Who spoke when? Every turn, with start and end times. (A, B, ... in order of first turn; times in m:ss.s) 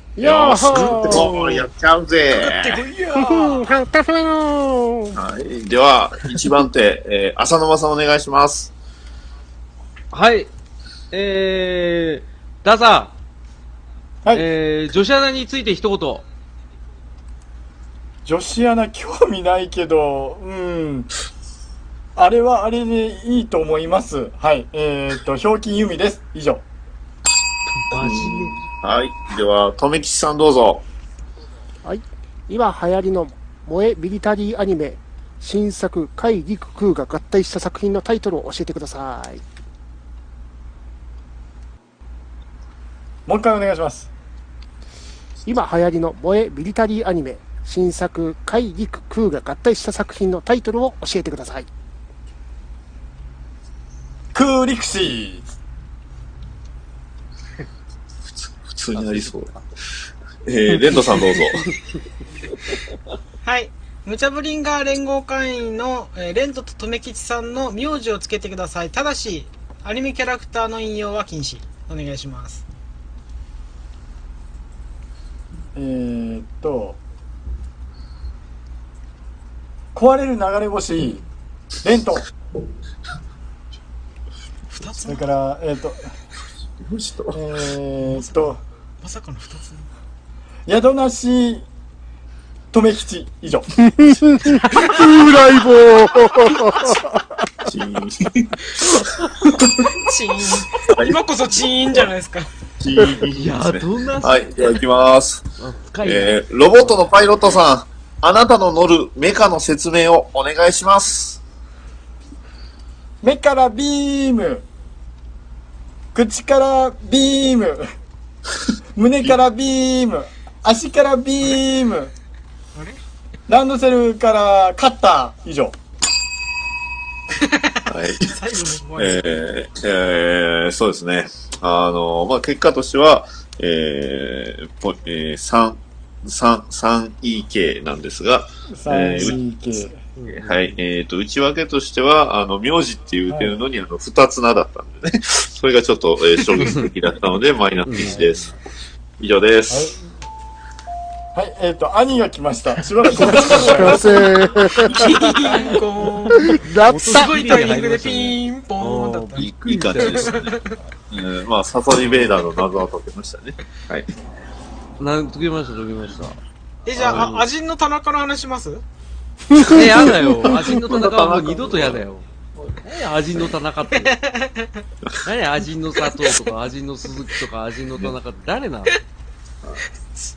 0:00.2-0:01.4 A
0:00.2-0:02.8 B
0:02.3-0:03.7 C
0:03.1-0:05.2 A
0:05.1-0:08.7 B
0:10.1-0:10.5 D
0:11.1-0:13.1 D
0:14.3-0:16.2 D
0:18.2-0:21.1 E
0:22.2-0:26.6 E
0:27.9-0:28.6 D
0:28.0-0:30.8 B
0:31.8-0:39.4 A
0:43.3-0:44.1 E
0:45.4-0:51.7 A
0:54.3-0:55.5 E
0:58.3-0:59.6 B
1:00.4-1:01.7 B
1:00.9-1:01.7 D
1:03.4-1:12.6 C
1:15.7-1:17.0 E
1:19.9-1:21.2 E
1:21.8-1:22.3 E
1:24.7-1:25.3 C
1:25.0-1:26.1 E
1:26.8-1:27.4 B
1:27.3-1:28.6 E
1:28.1-1:29.9 C
1:30.7-1:31.6 E
1:32.7-1:33.7 E
1:34.0-1:37.2 A
1:37.6-1:39.1 B
1:39.8-1:42.5 C
1:40.8-1:41.2 B
1:42.8-1:45.4 B
1:43.2-1:44.8 D
1:45.6-1:47.2 D
1:46.0-1:51.4 B
1:53.2-1:54.6 E
1:56.1-1:57.9 E
1:59.0-2:02.1 E
2:02.7-2:03.0 C
2:03.5-2:05.8 E
2:07.4-2:09.2 C
2:07.9-2:08.4 B
2:08.9-2:19.4 B
2:18.7-2:20.0 E
2:20.2-2:20.8 D
2:20.2-2:28.5 B
2:23.3-2:23.6 E
2:26.6-2:26.9 D
2:27.8-2:28.2 D
2:28.1-2:28.4 E
2:29.2-2:30.0 B
2:29.7-2:30.0 E
2:31.3-2:34.1 E
2:33.0-2:34.0 C
2:33.3-2:34.2 D
2:33.5-2:35.2 A
2:34.7-2:39.4 C
2:35.4-2:35.7 D
2:36.4-2:37.4 A
2:36.8-2:40.5 D
2:39.4-2:44.1 B
2:40.0-2:40.8 C
2:41.9-2:42.5 D
2:45.0-2:46.4 D
2:46.9-2:48.8 C
2:46.9-2:47.5 D
2:47.0-2:47.3 B
2:49.6-2:52.2 D
2:49.8-2:52.0 B
2:52.5-2:52.8 B
2:52.8-2:54.2 D
2:53.9-2:54.8 C
2:55.2-2:58.9 D